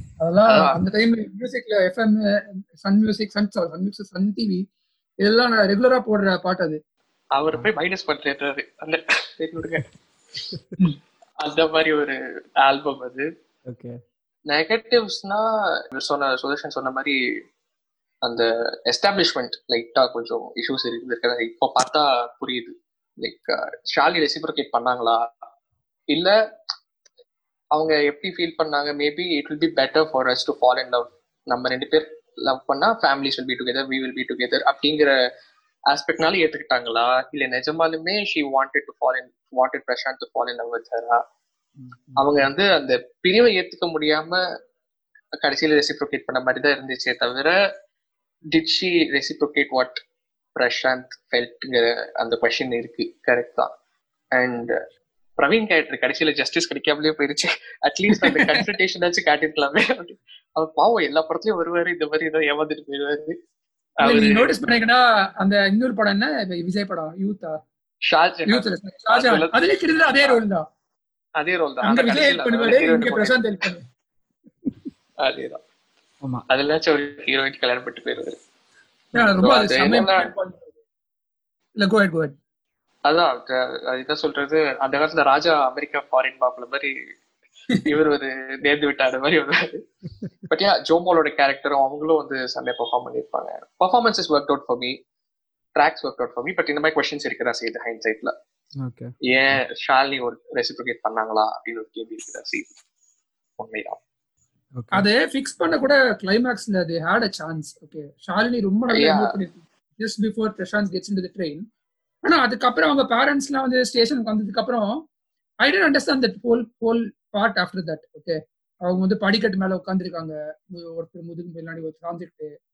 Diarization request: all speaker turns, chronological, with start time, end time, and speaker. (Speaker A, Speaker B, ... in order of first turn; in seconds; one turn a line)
Speaker A: 0.2-4.6
Speaker B: 0.5-0.8
Speaker A: 5.2-6.8
Speaker B: 7.3-9.9
Speaker B: 11.4-13.3
Speaker C: 13.7-14.0
Speaker B: 14.5-17.2
Speaker B: 18.2-25.3
Speaker B: 27.7-35.1
Speaker B: 35.9-41.2
Speaker C: 41.8-42.3
Speaker B: 42.2-44.4
Speaker B: 45.4-47.6
Speaker B: 48.5-50.0
Speaker B: 50.6-53.7
Speaker B: 54.3-54.8
Speaker B: 55.4-63.4
Speaker A: 58.1-58.6
Speaker B: 64.0-64.5
Speaker A: 64.0-67.6
Speaker B: 68.0-69.7
Speaker A: 68.5-70.6
Speaker B: 71.4-73.4
Speaker A: 71.8-73.8
Speaker B: 75.2-75.6
Speaker B: 76.5-78.4
Speaker A: 79.1-80.7
Speaker B: 79.2-80.3
Speaker A: 81.8-82.3
Speaker B: 83.0-87.0
Speaker B: 87.8-89.8
Speaker B: 90.5-95.0
Speaker B: 95.8-98.3
Speaker C: 98.8-99.6
Speaker B: 99.2-102.7
Speaker B: 103.6-104.0
Speaker C: 104.8-105.0
Speaker A: 104.9-111.6
Speaker B: 108.9-109.3
Speaker A: 112.2-115.0
Speaker A: 115.6-122.5